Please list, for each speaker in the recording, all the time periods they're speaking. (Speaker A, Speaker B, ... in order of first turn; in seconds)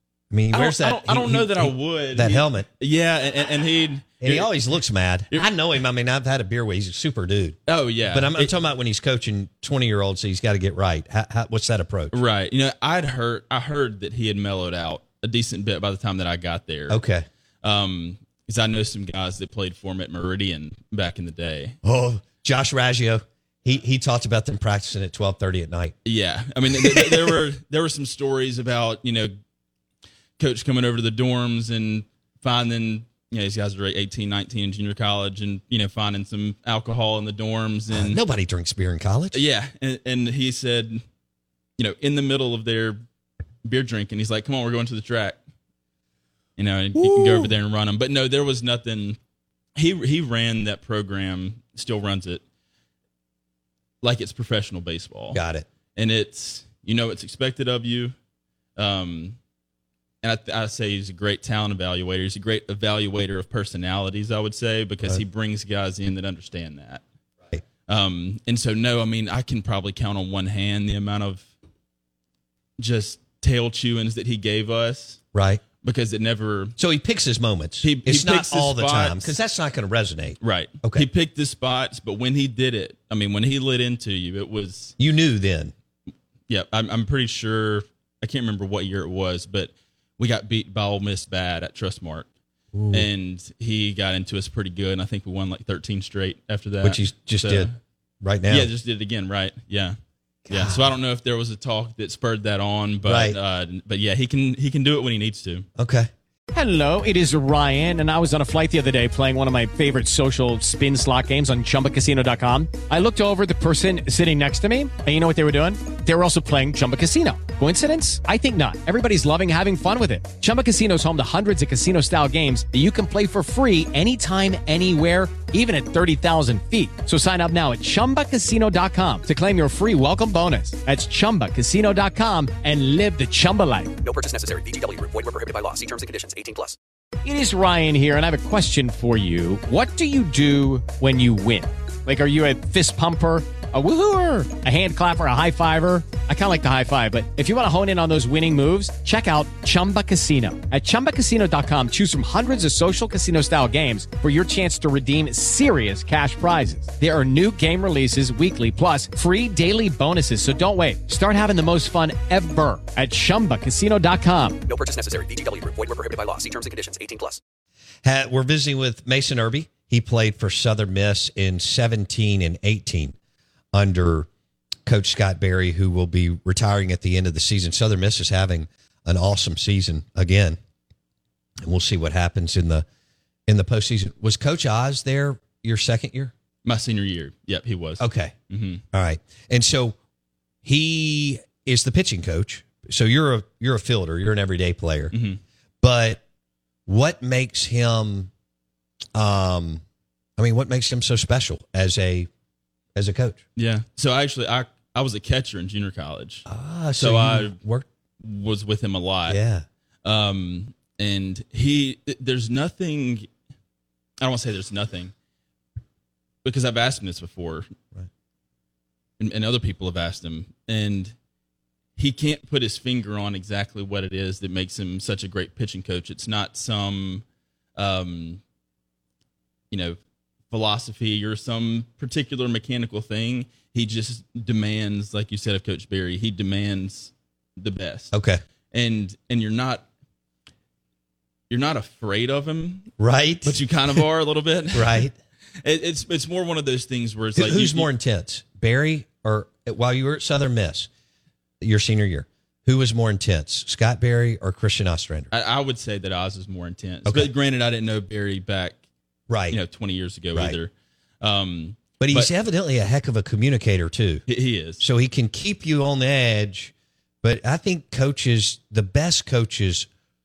Speaker A: 0.3-2.7, 4.2-12.2, 16.9-17.3, 21.8-25.9, 26.7-27.4, 37.9-39.4, 47.0-47.5, 55.3-55.7, 75.3-75.6, 76.8-81.1, 85.0-85.7, 92.7-93.1, 96.8-97.7, 98.2-98.7, 100.5-100.9, 103.0-103.4, 105.8-106.1, 168.0-173.2, 173.7-174.3, 174.9-180.6, 181.6-182.9, 183.5-186.3, 188.0-188.3, 188.9-190.0, 190.6-195.1, 195.8-196.2, 196.9-198.3, 199.2-199.8, 200.4-202.3, 202.9-203.4, 206.5-207.9, 209.3-209.7, 238.1-238.4, 243.0-243.6, 244.7-245.1, 247.4-250.9, 251.6-255.3, 257.1-257.3, 259.3-259.6, 262.0-264.2, 264.8-269.9
Speaker B: 0.5-4.5, 7.7-8.5, 12.1-17.0, 17.6-21.8, 26.1-29.4, 30.4-38.2, 39.3-41.0, 41.8-43.0, 43.6-45.4, 46.6-49.2, 49.8-52.4, 54.0-55.4, 56.0-58.1, 58.8-59.4, 60.2-67.0, 67.9-71.5, 72.8-75.2, 75.8-76.8, 77.8-79.3, 80.4-85.0, 86.5-92.3, 92.9-97.8, 98.5-100.0, 100.5-105.7, 186.7-188.8, 195.1-195.4, 203.6-207.6, 208.2-209.4, 210.0-213.3, 214.2-215.1, 216.4-217.7, 219.2-221.1, 222.0-227.2, 227.8-228.4, 229.7-230.0, 230.5-238.1, 238.7-239.8, 241.5-242.9, 243.4-245.1, 245.6-247.9, 255.3-258.8, 259.5-262.3, 264.3-264.9
Speaker C: 106.5-133.9, 137.2-164.6
Speaker D: 134.0-136.8, 164.7-167.4